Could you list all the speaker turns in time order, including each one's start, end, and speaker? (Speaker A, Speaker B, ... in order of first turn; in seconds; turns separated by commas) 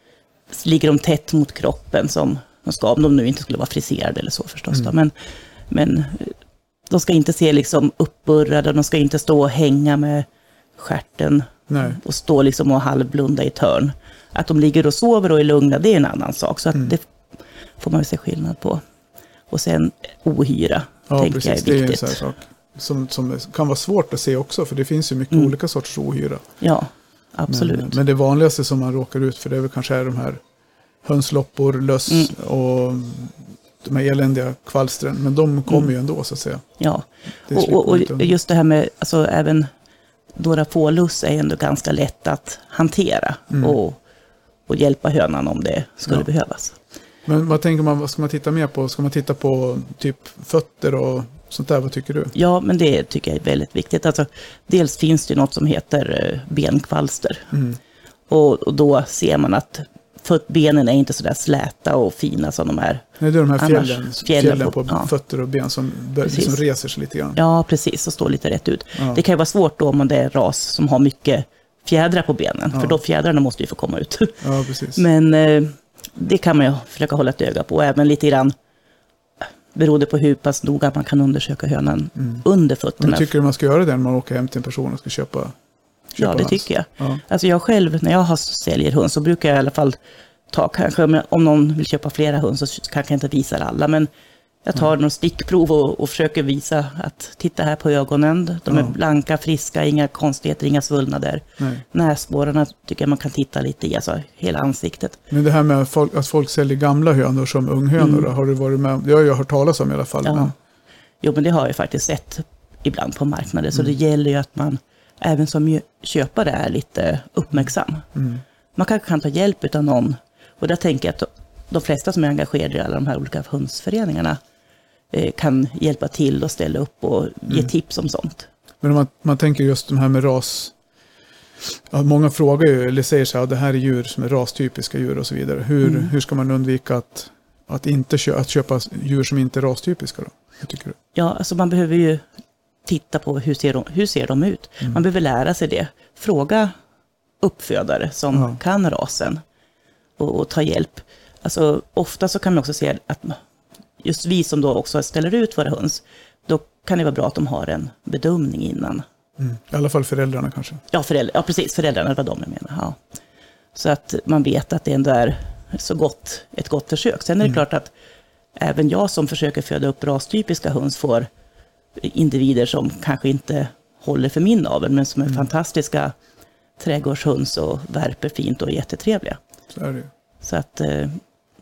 Speaker A: 0.5-5.1, Speaker A: 5.7-6.3, Speaker A: 6.9-17.0, Speaker B: 11.7-12.0, Speaker A: 17.8-18.8, Speaker A: 19.5-22.2, Speaker B: 21.1-26.4, Speaker A: 26.6-28.0, Speaker B: 27.5-30.4, Speaker B: 31.0-36.6, Speaker A: 32.1-32.3, Speaker A: 36.8-39.7, Speaker B: 37.5-38.3, Speaker A: 40.3-44.0, Speaker B: 43.5-43.8, Speaker A: 44.7-46.8, Speaker B: 47.2-52.3, Speaker A: 52.3-57.5, Speaker B: 57.5-57.8, Speaker A: 58.3-63.1, Speaker B: 63.2-67.4, Speaker A: 63.6-65.1, Speaker A: 66.2-66.6, Speaker A: 67.3-74.4, Speaker B: 69.0-69.2, Speaker B: 72.7-73.0, Speaker B: 74.4-75.0, Speaker A: 74.9-78.5, Speaker A: 79.7-83.3, Speaker B: 82.2-82.4, Speaker B: 83.0-85.5, Speaker A: 86.1-90.0, Speaker B: 86.2-87.2, Speaker A: 90.5-94.1, Speaker A: 94.6-105.2, Speaker B: 98.7-98.9, Speaker B: 101.6-101.8, Speaker B: 105.3-110.5, Speaker A: 108.0-108.3, Speaker A: 110.2-110.5, Speaker A: 111.2-118.1, Speaker B: 118.1-118.4, Speaker A: 118.7-124.4, Speaker A: 125.1-128.5, Speaker B: 128.8-130.7, Speaker B: 131.9-140.9, Speaker A: 135.8-136.1, Speaker A: 141.1-142.2, Speaker A: 142.8-146.7, Speaker A: 147.4-149.4, Speaker B: 148.3-148.6, Speaker A: 150.2-153.4, Speaker A: 154.0-159.0, Speaker B: 159.4-160.8, Speaker A: 160.9-163.0, Speaker A: 163.7-167.9, Speaker A: 168.6-171.3, Speaker A: 172.0-176.1, Speaker A: 176.8-179.4, Speaker B: 179.7-180.1, Speaker A: 180.4-181.2